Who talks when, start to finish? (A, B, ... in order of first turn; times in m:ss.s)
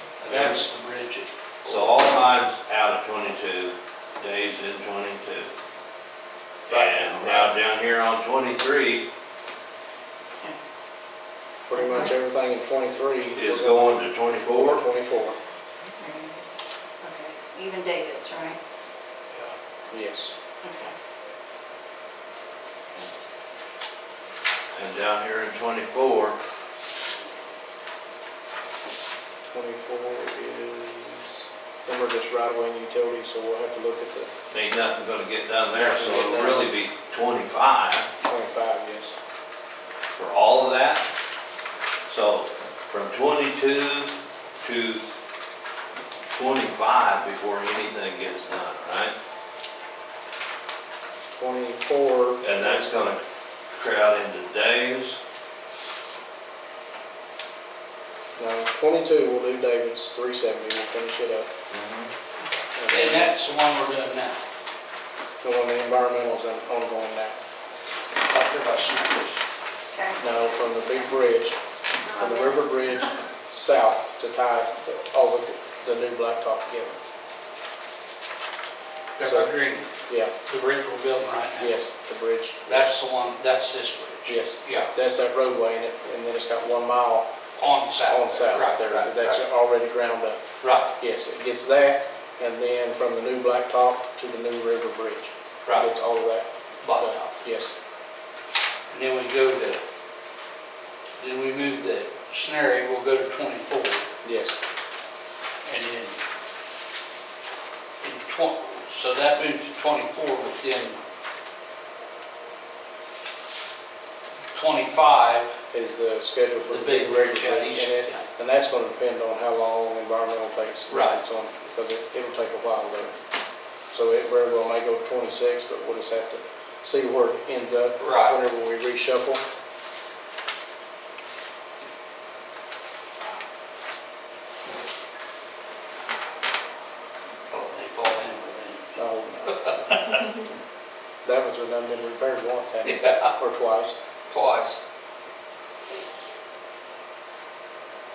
0:00.2-0:01.8 A
0:00.3-0:00.6 B
0:01.6-0:05.5 B
0:06.7-0:09.0 B
0:06.7-0:07.5 C
0:11.7-0:15.4 C
0:11.7-0:12.1 D
0:13.4-0:14.8 B
0:15.8-0:16.4 D
0:17.0-0:18.6 D
0:19.9-0:20.3 C
0:20.6-0:20.9 D
0:24.7-0:26.4 B
0:29.5-0:34.3 C
0:34.5-0:38.1 B
0:35.7-0:36.7 C
0:38.2-0:39.1 C
0:40.2-0:41.0 B
0:42.1-0:45.0 B
0:46.3-0:49.1 B
0:51.3-0:53.2 C
0:52.4-0:55.2 B
0:58.4-1:01.5 C
1:01.7-1:02.1 B
1:02.7-1:03.4 C
1:02.9-1:04.4 A
1:05.4-1:07.4 C
1:08.3-1:09.4 A
1:09.9-1:10.9 D
1:10.2-1:11.6 C
1:12.0-1:12.9 D
1:12.2-1:17.0 C
1:19.2-1:19.9 A
1:19.2-1:19.5 C
1:20.0-1:20.3 C
1:20.4-1:21.7 A
1:21.6-1:22.9 C
1:22.7-1:24.9 A
1:24.2-1:27.3 C
1:27.6-1:29.4 A
1:28.0-1:30.4 C
1:30.6-1:30.9 A
1:31.0-1:37.7 C
1:36.8-1:37.3 A
1:38.9-1:39.8 A
1:41.2-1:44.1 A
1:44.2-1:44.6 C
1:45.6-1:46.2 A
1:48.0-1:51.0 A
1:54.5-1:55.5 A
1:55.7-2:03.2 C
1:56.7-1:58.3 A
2:00.9-2:01.2 A
2:03.9-2:09.4 C
2:08.0-2:08.4 A
2:17.5-2:20.3 A
2:19.0-2:20.5 C
2:21.2-2:24.0 C
2:22.8-2:23.3 A
2:24.3-2:24.8 A